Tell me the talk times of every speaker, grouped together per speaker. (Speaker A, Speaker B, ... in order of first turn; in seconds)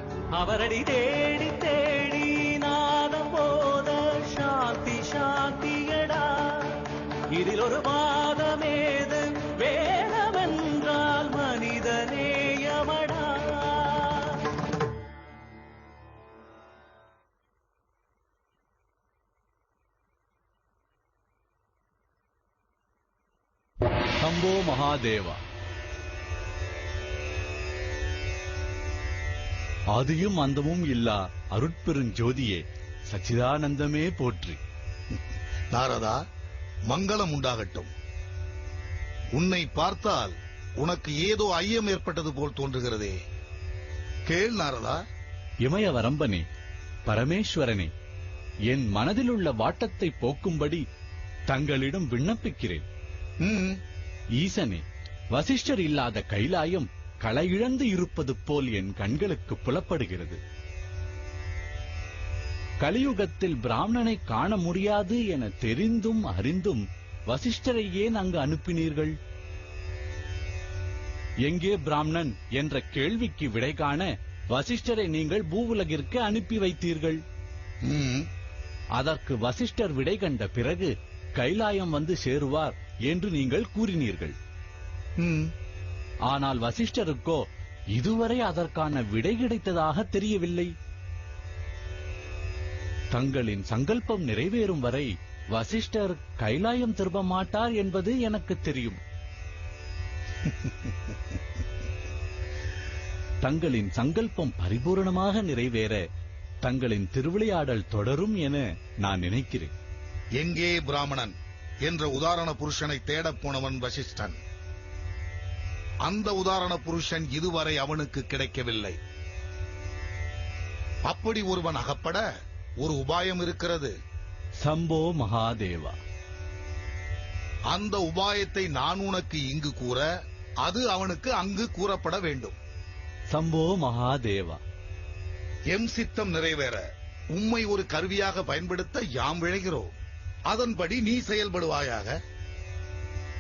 Speaker A: 0.3-14.4
Speaker B: 24.2-25.4, 29.9-34.6, 45.6-46.5, 47.1-47.9, 48.7-50.8, 51.5-52.9, 54.4-60.4, 62.8-69.2, 71.4-77.2, 79.0-84.4, 86.3-90.7, 93.1-99.0, 103.4-106.0, 106.6-109.7, 124.6-126.0, 133.3-134.6
Speaker C: 35.7-36.2, 36.9-37.9, 39.4-43.2, 44.3-45.0, 53.4-53.8, 77.9-78.3, 85.2-85.5, 110.4-114.4, 116.0-119.0, 121.1-122.2, 122.8-123.9, 127.7-130.1, 130.6-132.6, 135.7-136.8, 137.3-139.9, 140.5-142.2